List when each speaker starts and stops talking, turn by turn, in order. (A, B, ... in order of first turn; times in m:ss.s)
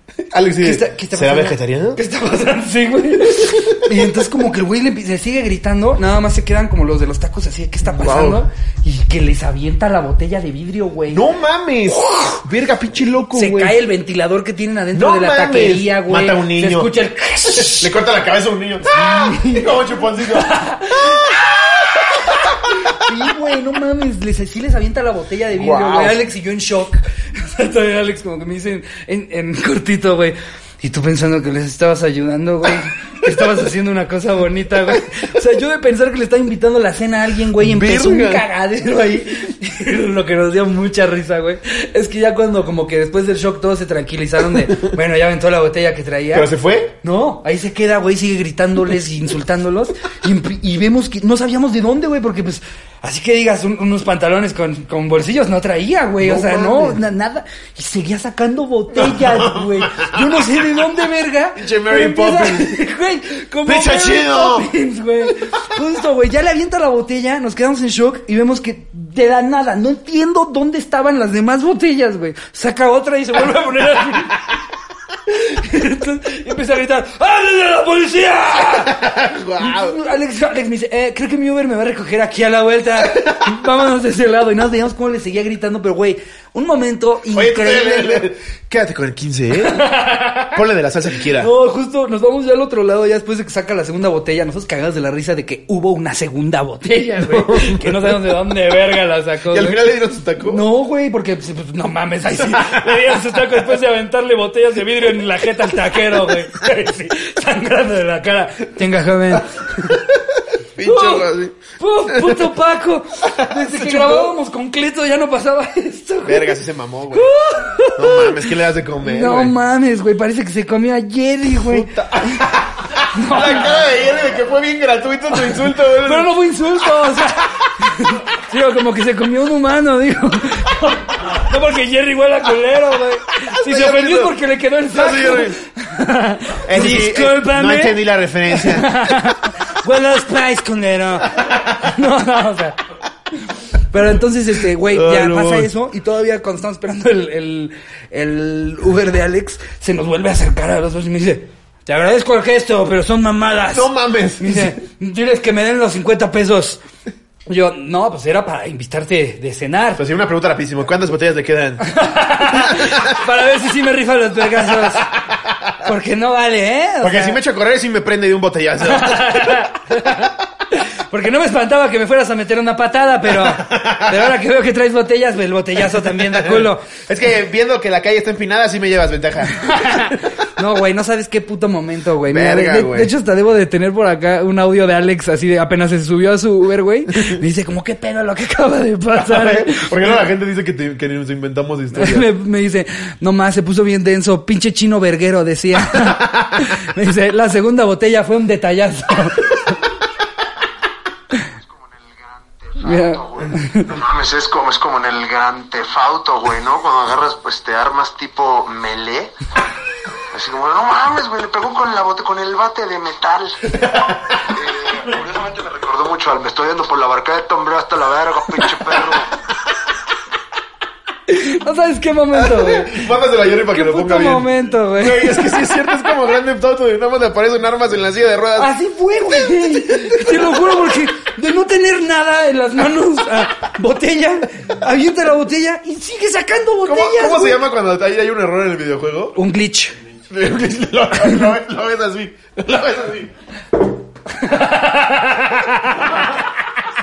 0:00.3-0:02.0 A
0:00.6-0:11.3 B
0:03.4-0:04.0 A
0:07.9-0:08.4 A
0:11.1-0:13.8 A
0:12.0-0:12.4 B
0:13.3-0:17.9 B
0:14.9-0:16.9 A
0:17.5-0:23.1 A
0:18.9-0:19.7 B
0:20.3-0:21.5 B
0:22.3-0:46.5 B
0:25.6-0:26.2 A
0:37.6-0:38.4 A
0:44.6-0:44.9 A
0:46.3-0:46.9 A
0:47.0-1:14.5 B
0:56.2-0:57.0 A
0:58.9-1:00.8 A
1:01.6-1:02.8 A
1:03.7-1:04.7 A
1:15.3-1:28.3 B
1:18.6-1:20.0 A
1:23.0-1:23.5 A
1:27.3-1:29.8 A
1:29.6-1:30.6 B
1:30.5-1:31.5 A
1:31.3-1:39.8 B
1:37.2-1:38.2 A
1:39.5-1:40.6 A
1:40.4-1:50.1 B
1:42.5-1:42.9 A
1:49.9-1:52.5 A
1:50.8-1:56.6 B
1:53.2-1:54.3 A
1:56.2-1:57.3 A
1:57.1-2:02.4 B
1:58.0-1:59.5 A
2:01.6-2:06.3 A
2:03.1-2:03.8 B
2:05.4-2:22.8 B
2:13.4-2:14.4 A
2:14.9-2:15.6 A
2:16.6-2:19.2 A
2:21.4-2:21.7 A
2:23.4-2:36.8 B
2:24.8-2:25.7 A
2:33.7-2:34.8 A
2:37.5-2:40.0 B
2:40.0-2:41.9 A
2:41.8-2:45.1 B
2:42.4-2:43.2 A
2:45.3-2:45.7 A
2:45.8-2:47.4 B
2:47.0-2:49.6 A
2:48.8-2:56.9 B
2:53.4-2:54.3 A
2:56.2-3:00.2 A
2:59.5-3:10.2 B
3:02.3-3:03.1 A
3:09.2-3:12.3 A
3:11.9-3:19.8 B
3:15.9-3:16.5 A
3:21.6-3:29.5 C
3:22.8-3:23.9 B
3:30.3-3:39.3 C
3:41.3-3:43.1 B
3:42.3-3:48.7 A
3:43.7-3:45.8 B
3:48.6-3:57.6 B
3:49.3-3:50.8 A
3:56.8-3:59.4 A
3:59.4-4:00.0 B
4:00.3-4:03.3 A
4:04.4-4:06.0 B